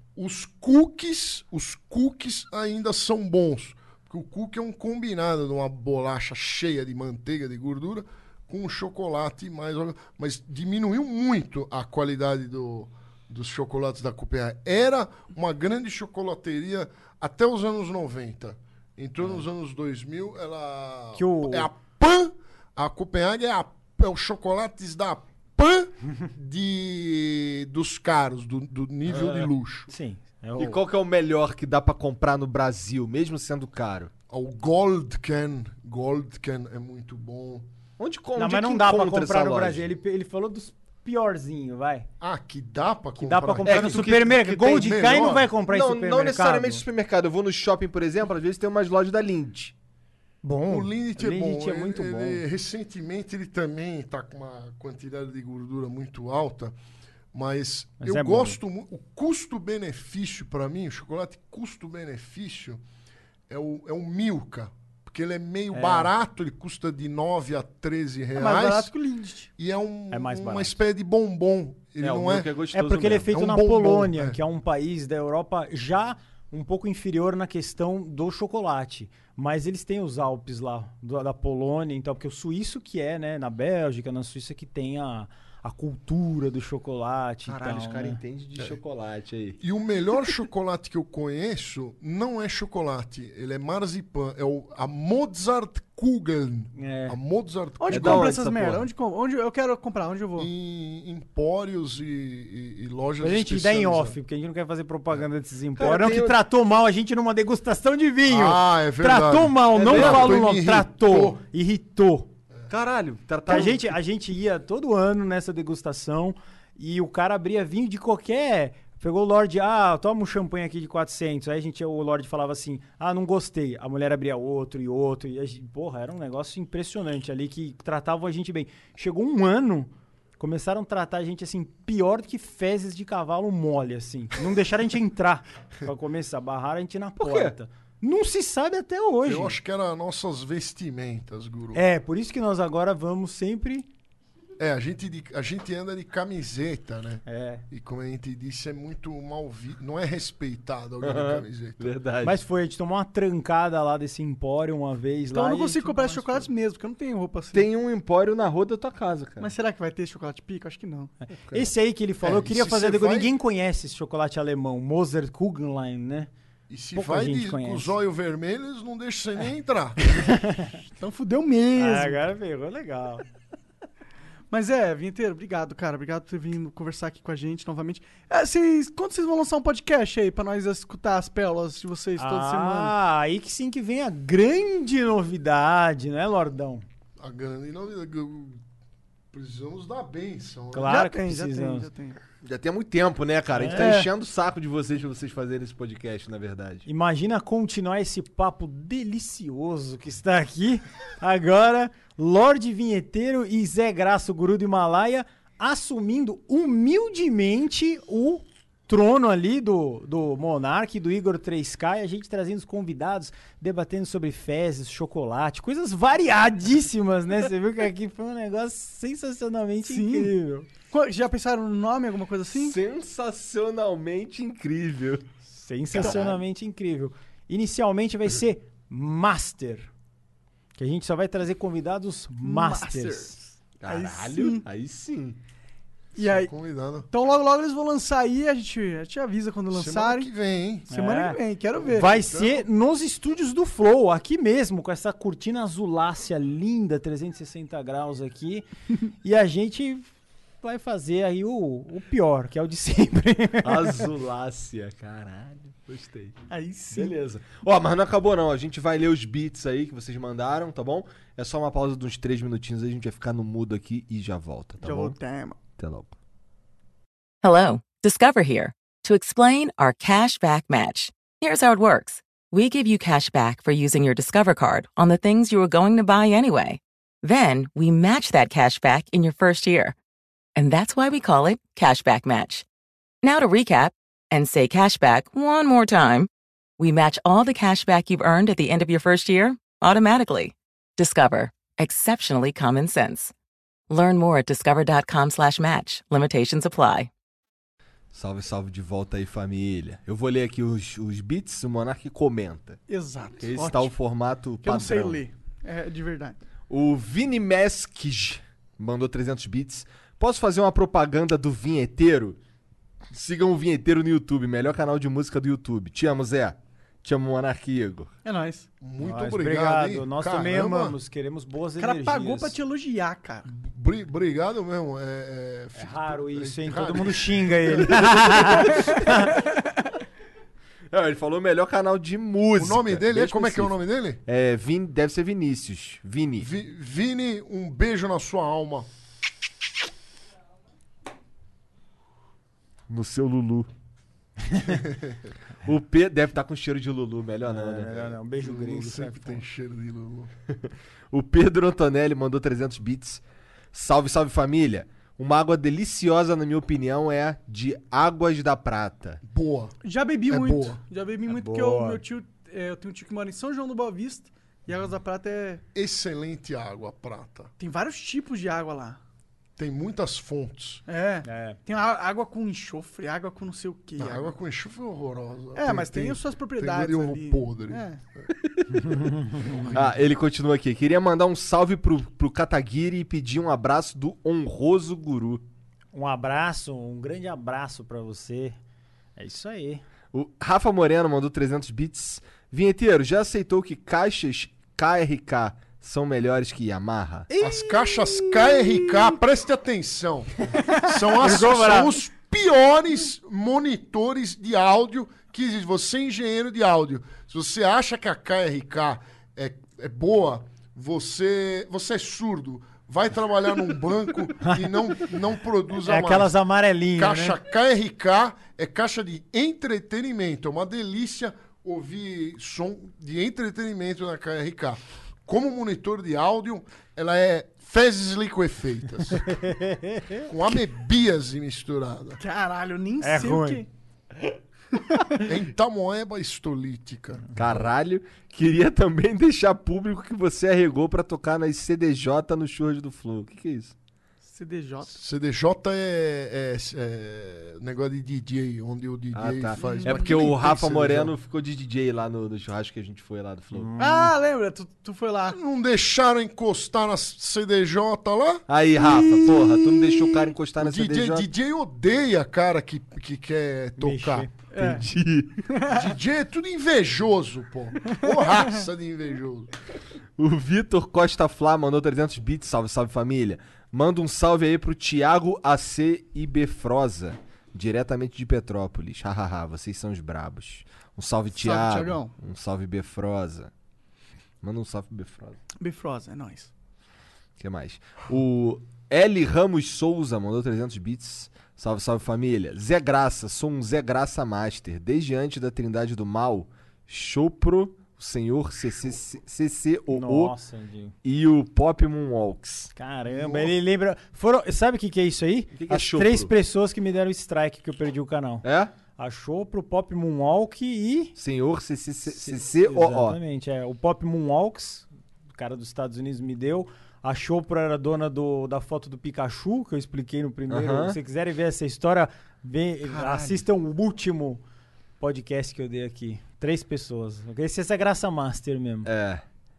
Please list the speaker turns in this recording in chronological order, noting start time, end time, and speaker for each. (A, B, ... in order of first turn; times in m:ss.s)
0:00.2-0:29.9 A
0:21.1-0:21.7 B
0:29.1-0:29.5 C
0:29.9-0:30.8 B
0:30.6-0:34.1 C
0:34.3-0:37.6 A
0:38.0-0:39.9 C
0:38.4-0:42.1 B
0:42.2-0:45.5 A
0:43.2-0:46.8 B
0:43.6-0:44.6 C
0:45.7-0:49.7 C
0:50.4-0:52.4 B
0:50.7-0:56.8 A
0:57.3-1:02.8 A
0:58.0-0:58.6 B
1:03.5-1:08.9 A
1:05.7-1:06.1 B
1:08.4-1:09.5 D
1:09.6-1:12.5 A
1:10.1-1:10.8 B
1:12.0-1:13.3 C
1:12.7-1:28.2 B
1:13.3-1:14.4 A
1:27.5-1:29.6 C
1:29.6-1:38.3 A
1:36.8-1:37.2 B
1:37.8-1:40.5 D
1:37.9-1:38.9 C
1:40.4-1:44.2 A
1:43.2-1:52.3 B
1:45.8-1:46.4 C
1:48.3-1:51.4 A
1:49.7-1:50.4 C
1:52.7-1:53.8 C
1:53.5-2:19.6 B
2:17.2-2:17.5 C
2:19.2-2:21.8 A
2:21.7-2:23.9 B
2:24.6-2:31.9 A
2:27.2-2:27.6 B
2:31.0-2:32.4 C
2:32.2-2:36.5 B
2:35.3-2:37.7 D
2:37.5-2:39.5 C
2:39.4-2:41.1 D
2:41.4-2:41.7 C
2:41.5-2:46.3 B
2:42.2-2:43.3 A
2:46.7-2:50.3 A
2:46.9-2:47.9 B
2:50.2-2:50.8 B
2:51.0-2:52.2 D
2:51.8-2:53.2 B
2:54.5-3:02.9 D
3:02.2-3:06.8 B
3:07.2-3:08.6 A
3:09.3-3:11.0 A
3:10.7-3:11.9 B
3:10.8-3:12.2 D
3:12.4-3:16.8 C
3:13.5-3:13.9 B
3:13.7-3:14.1 D
3:16.8-3:40.7 B
3:39.8-3:40.3 D
3:40.9-3:42.8 D
3:42.5-3:45.2 C
3:45.5-3:49.9 B
3:45.9-3:46.3 C
3:50.8-3:53.4 B
3:52.4-3:54.6 D
3:53.8-3:55.4 C
3:56.2-3:56.5 D
3:56.2-3:57.1 A
3:57.1-4:00.3 D
3:59.7-4:00.9 A
4:00.9-4:01.4 B
4:00.9-4:02.1 D
4:01.8-4:02.6 A
4:01.9-4:08.6 B
4:09.2-4:10.1 B
4:10.6-4:14.1 B
4:13.6-4:16.4 C
4:16.5-4:17.2 D
4:16.9-4:25.2 C
4:24.8-4:25.6 D
4:25.8-4:26.1 C
4:27.4-4:39.9 E
4:40.6-4:42.6 E
4:43.2-4:53.3 E
4:53.9-4:57.1 E
4:58.1-5:02.8 C
5:02.9-5:03.9 D
5:03.4-5:05.2 C
5:04.6-5:06.4 D
5:06.7-5:12.4 C
5:13.1-5:18.1 C
5:18.2-5:18.7 D
5:18.8-5:21.0 A
5:19.0-5:22.6 B
5:21.8-5:23.5 D
5:23.4-5:28.9 A
5:25.8-5:29.3 B
5:28.9-5:29.4 D
5:30.9-5:33.7 C
5:32.6-5:34.2 A
5:34.2-5:36.5 C
5:36.4-5:38.9 A
5:42.9-5:43.7 C
5:45.6-5:48.1 C
5:47.4-5:49.4 B
5:48.4-5:50.3 A
5:50.5-5:53.2 C
5:53.7-5:59.2 C
5:59.2-5:59.7 A
5:59.8-6:05.6 D
6:00.3-6:00.8 A
6:01.3-6:02.0 B
6:05.7-6:07.5 A
6:07.6-6:09.0 D
6:09.6-6:10.8 A
6:10.9-6:14.3 D
6:11.2-6:11.6 B
6:14.0-6:18.2 A
6:15.5-6:18.0 D
6:18.8-6:19.4 B
6:19.7-6:25.4 C
6:25.9-6:28.6 B
6:29.2-6:29.8 B
6:30.1-6:37.3 C
6:37.3-6:39.0 B
6:37.4-6:56.3 A
6:41.2-6:42.0 B
6:54.4-6:54.8 B
6:55.8-6:57.4 B
6:57.0-7:09.3 A
7:09.2-7:10.3 B
7:10.3-7:12.2 A
7:12.2-7:13.7 D
7:13.0-7:13.6 B
7:15.2-7:17.2 A
7:17.3-7:23.7 C
7:24.2-7:25.0 D
7:24.8-7:31.1 A
7:29.1-7:33.7 C
7:29.6-7:30.1 D
7:33.5-7:34.1 B
7:33.8-7:35.4 D
7:35.3-7:38.4 A
7:38.5-7:41.2 C
7:40.6-7:44.3 A
7:43.8-7:44.3 B
7:44.5-7:44.8 D
7:44.6-7:45.4 C
7:45.5-7:45.8 D
7:45.7-7:49.5 A
7:50.2-8:03.5 C
8:01.3-8:02.1 D
8:04.4-8:05.4 C
8:05.6-8:06.5 D
8:07.4-8:20.3 C
8:19.9-8:20.9 B
8:21.0-8:22.7 C
8:22.8-8:28.4 B
8:23.1-8:23.5 A
8:25.5-8:26.3 C
8:28.4-8:28.7 C
8:29.0-8:31.1 B
8:31.2-8:33.2 C
8:32.1-8:44.4 B
8:40.5-8:41.0 C
8:42.8-8:43.4 C
8:45.0-8:48.9 B
8:48.8-8:49.2 C